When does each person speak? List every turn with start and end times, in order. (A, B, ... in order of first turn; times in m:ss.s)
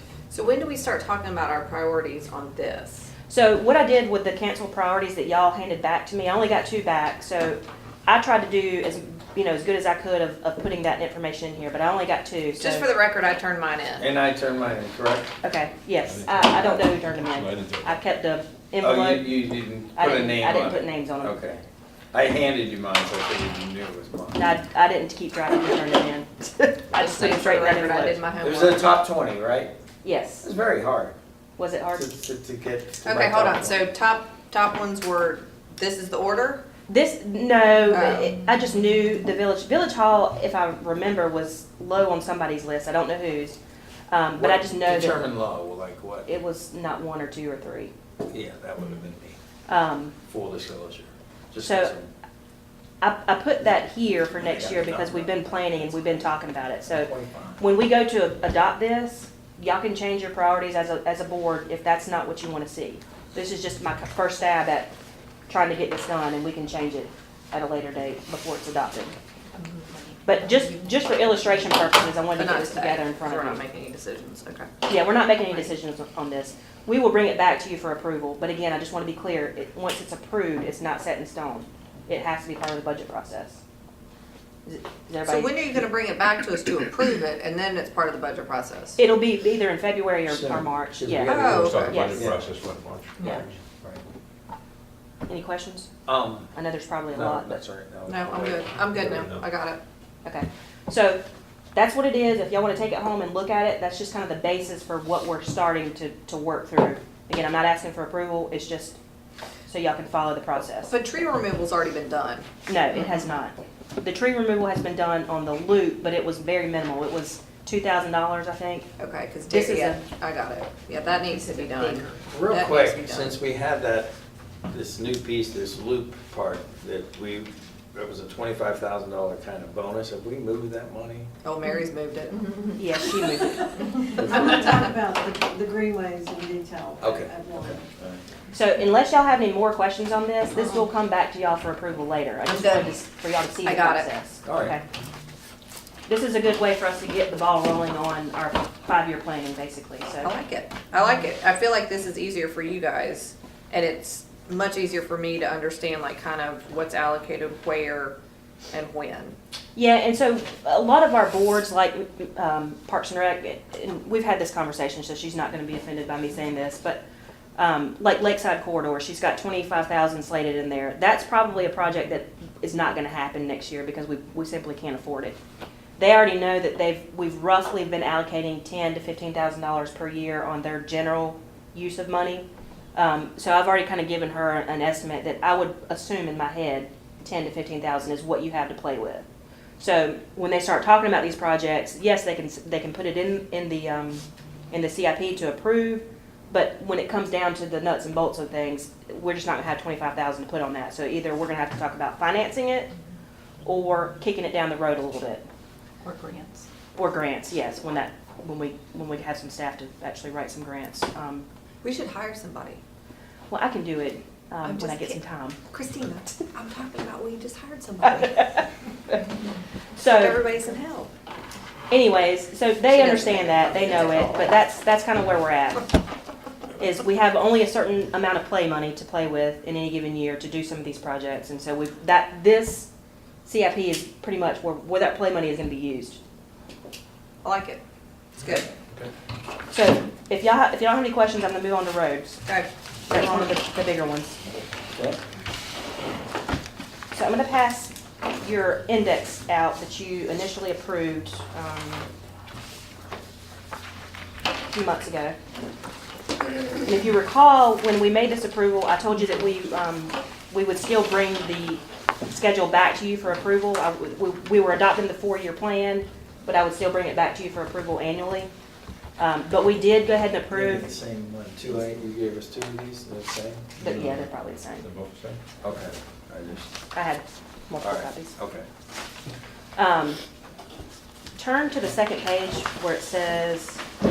0:00.3-0:03.1 A
0:03.3-0:12.9 B
0:12.6-0:14.1 A
0:14.0-0:15.3 C
0:15.4-0:19.4 B
0:16.0-0:18.0 D
0:18.8-0:24.5 C
0:19.9-0:21.4 B
0:24.3-0:28.2 B
0:27.0-0:29.0 A
0:28.4-0:29.7 C
0:30.0-0:30.4 B
0:30.4-0:31.1 C
0:31.6-0:32.1 B
0:31.9-0:33.8 C
0:33.0-0:36.6 A
0:36.9-0:43.6 B
0:37.9-0:38.3 A
0:44.1-0:45.2 B
0:44.4-0:46.3 C
0:46.2-0:47.9 B
0:48.3-0:49.4 C
0:49.7-0:50.1 B
0:50.2-0:52.1 C
0:51.6-0:51.9 B
0:53.0-1:04.9 B
0:54.3-0:56.3 C
0:56.8-0:57.6 C
1:05.5-1:09.1 B
1:10.2-1:13.6 B
1:12.3-1:14.7 A
1:14.9-1:23.6 B
1:24.6-1:25.5 B
1:25.2-1:29.0 A
1:29.0-1:32.3 B
1:30.3-1:32.4 C
1:31.2-1:33.6 D
1:31.2-1:32.1 A
1:33.2-1:33.4 A
1:35.3-1:35.9 B
1:36.0-1:36.5 C
1:36.5-1:37.6 B
1:37.1-1:38.6 C
1:38.1-1:39.8 A
1:38.8-1:39.4 D
1:40.2-1:41.2 B
1:41.7-1:49.0 B
1:49.7-1:50.9 B
1:50.8-1:52.4 A
1:52.7-1:58.9 B
1:59.0-2:03.4 A
1:59.5-2:00.0 B
2:02.3-2:04.1 C
2:04.7-2:11.3 C
2:11.4-2:13.1 A
2:12.8-2:13.8 B
2:13.8-2:14.8 A
2:14.1-2:17.9 E
2:17.0-2:18.2 C
2:18.5-2:24.8 B
2:22.4-2:22.9 A
2:23.6-2:24.1 A
2:24.4-2:24.8 C
2:26.1-2:30.3 B
2:30.2-2:38.2 A
2:38.7-2:39.4 A
2:39.8-2:47.0 B
2:47.6-2:55.4 B
2:56.0-3:09.2 B
3:09.8-3:22.9 B
3:23.6-3:25.4 B
3:26.0-3:26.6 A
3:27.0-3:31.4 B
3:31.8-3:32.8 A
3:33.5-3:35.6 B
3:34.6-3:38.6 A
3:38.4-3:38.6 B
3:40.0-3:40.4 B
3:40.0-3:41.1 A
3:41.9-3:45.9 B
3:42.9-3:44.6 A
3:46.8-3:52.9 B
3:53.4-3:56.2 B
3:57.4-3:57.8 A
3:58.4-3:58.7 A
3:59.7-4:02.4 B
4:02.4-4:03.5 A
4:03.1-4:04.4 B
4:04.9-4:05.2 C
4:07.1-4:12.1 B
4:14.7-4:15.4 B
4:16.8-4:28.5 B
4:29.2-4:30.9 B
4:30.5-4:34.1 C
4:33.8-4:34.8 B
4:34.8-4:35.4 D
4:35.6-4:36.7 C
4:36.9-4:38.4 B
4:37.8-4:38.6 C
4:39.8-4:40.2 B
4:41.4-4:43.8 B